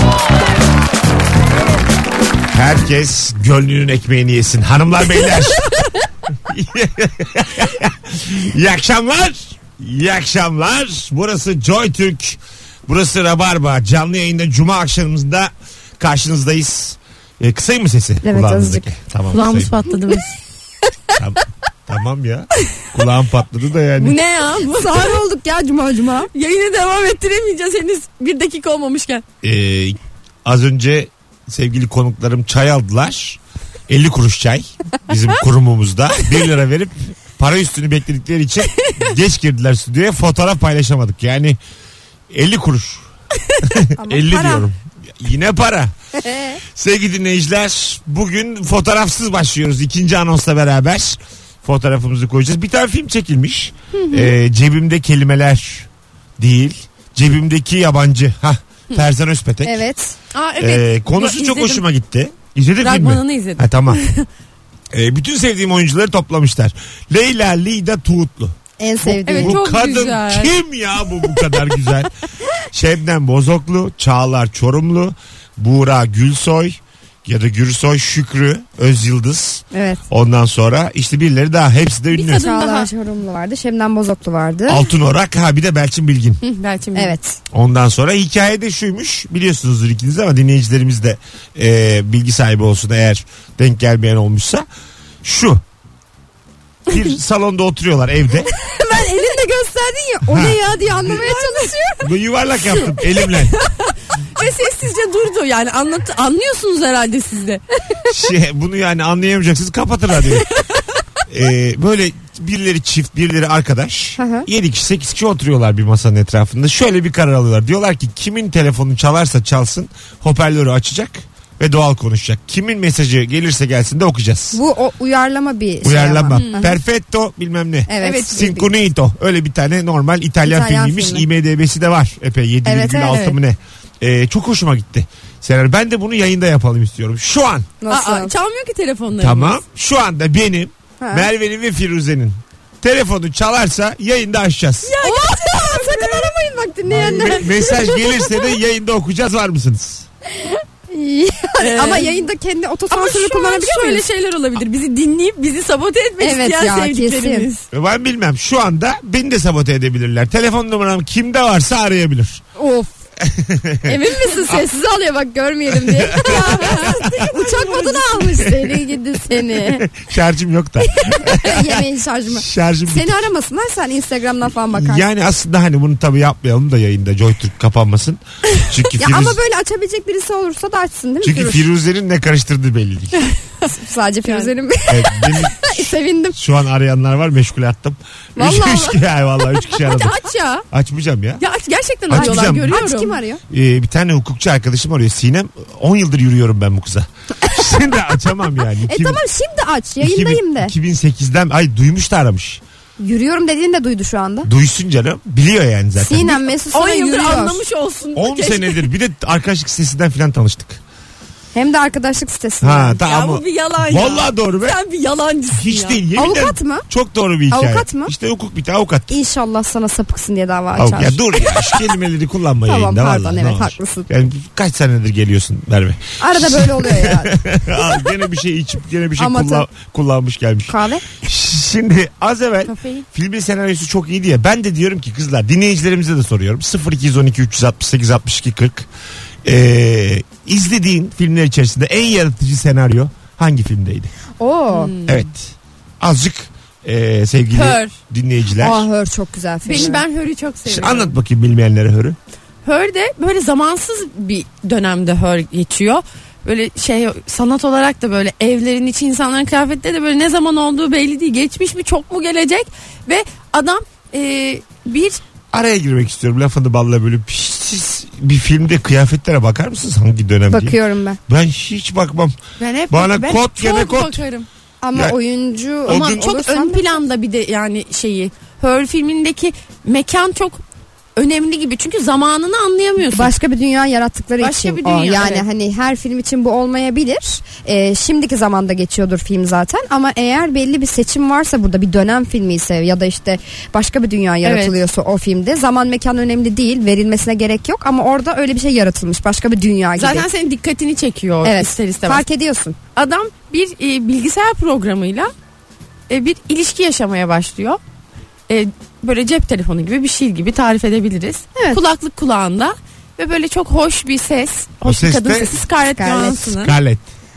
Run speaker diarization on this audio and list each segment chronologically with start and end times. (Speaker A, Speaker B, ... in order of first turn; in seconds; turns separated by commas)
Speaker A: 2.5-5.7, Speaker A: 6.5-19.7, Speaker B: 18.2-18.9, Speaker C: 19.3-20.3, Speaker A: 21.1-24.2, Speaker C: 24.0-25.1, Speaker B: 24.7-26.3, Speaker C: 26.3-29.2, Speaker A: 29.4-41.6, Speaker A: 42.3-43.0, Speaker A: 43.6-45.9, Speaker B: 44.0-44.6, Speaker B: 46.2-46.6, Speaker A: 46.7-59.8, Speaker C: 53.9-54.3, Speaker B: 59.6-60.1, Speaker C: 60.3-61.8, Speaker A: 60.6-64.0, Speaker C: 62.8-64.2, Speaker A: 64.9-72.1, Speaker B: 68.8-69.6, Speaker C: 69.2-70.5, Speaker A: 72.7-82.6, Speaker B: 79.7-80.0, Speaker C: 82.1-82.9, Speaker B: 82.3-84.8, Speaker A: 84.7-86.4, Speaker C: 86.4-87.1, Speaker B: 87.0-87.4, Speaker A: 87.5-94.7, Speaker A: 95.2-95.6, Speaker A: 96.9-98.5, Speaker B: 98.7-102.1, Speaker A: 100.3-100.6, Speaker C: 101.1-101.7, Speaker A: 102.0-103.5, Speaker C: 103.3-107.6, Speaker A: 108.1-110.5, Speaker A: 111.3-124.6, Speaker B: 114.2-114.5, Speaker B: 124.5-126.8, Speaker A: 125.8-137.7, Speaker C: 126.3-126.7, Speaker B: 127.9-128.7, Speaker C: 128.0-128.3, Speaker B: 130.4-131.2, Speaker B: 132.6-133.3, Speaker C: 133.1-133.3, Speaker B: 137.8-138.3, Speaker C: 137.9-139.6, Speaker A: 139.2-144.9, Speaker B: 141.0-141.3, Speaker C: 144.8-146.3, Speaker B: 145.0-148.2, Speaker A: 146.9-150.1, Speaker C: 146.9-147.8, Speaker B: 150.9-154.0, Speaker C: 151.6-152.1, Speaker C: 152.9-157.6, Speaker B: 156.2-157.5, Speaker A: 157.7-162.4, Speaker B: 162.6-162.9, Speaker A: 163.2-164.0, Speaker C: 163.9-169.8, Speaker B: 163.9-164.7, Speaker B: 165.5-169.8, Speaker A: 165.8-167.0, Speaker A: 169.9-173.2, Speaker B: 171.1-175.0, Speaker A: 174.7-179.4, Speaker B: 178.9-181.7, Speaker A: 181.2-183.2, Speaker B: 183.6-186.4, Speaker C: 184.2-184.5, Speaker A: 184.9-190.2, Speaker B: 188.4-189.0, Speaker C: 189.8-190.6, Speaker A: 190.7-191.4, Speaker C: 191.4-193.2, Speaker A: 192.1-192.8, Speaker B: 192.1-193.4, Speaker A: 193.5-199.2, Speaker B: 198.8-200.7, Speaker A: 200.0-202.6, Speaker B: 203.0-204.5, Speaker A: 204.4-206.4, Speaker B: 206.0-207.6, Speaker C: 206.7-208.9, Speaker A: 208.2-210.8, Speaker B: 211.5-213.0, Speaker A: 212.6-214.8, Speaker C: 213.1-216.0, Speaker A: 215.5-219.1, Speaker B: 216.2-216.8, Speaker B: 217.5-218.1, Speaker B: 219.1-221.2, Speaker A: 220.7-238.9, Speaker B: 222.7-224.1, Speaker B: 226.2-227.3, Speaker B: 229.2-229.6, Speaker B: 230.7-231.2, Speaker C: 232.7-233.0, Speaker A: 239.4-244.1, Speaker B: 244.4-244.9, Speaker C: 244.7-245.2, Speaker A: 245.1-248.9, Speaker C: 247.5-247.9, Speaker B: 248.6-250.0, Speaker C: 249.6-251.1, Speaker A: 250.7-252.2, Speaker C: 252.6-265.2, Speaker A: 265.5-270.8, Speaker B: 270.5-271.2, Speaker A: 271.3-272.4, Speaker C: 272.6-274.5, Speaker A: 272.9-274.2, Speaker B: 274.8-276.9, Speaker A: 275.9-276.4, Speaker C: 275.9-280.6, Speaker C: 281.2-283.3, Speaker B: 283.1-300.3, Speaker C: 284.4-285.4, Speaker C: 294.4-294.8, Speaker C: 300.0-302.2, Speaker B: 301.4-302.8, Speaker C: 302.9-305.3, Speaker C: 306.1-307.8, Speaker C: 308.5-316.7, Speaker A: 314.8-315.6, Speaker B: 316.0-316.5, Speaker A: 316.4-317.1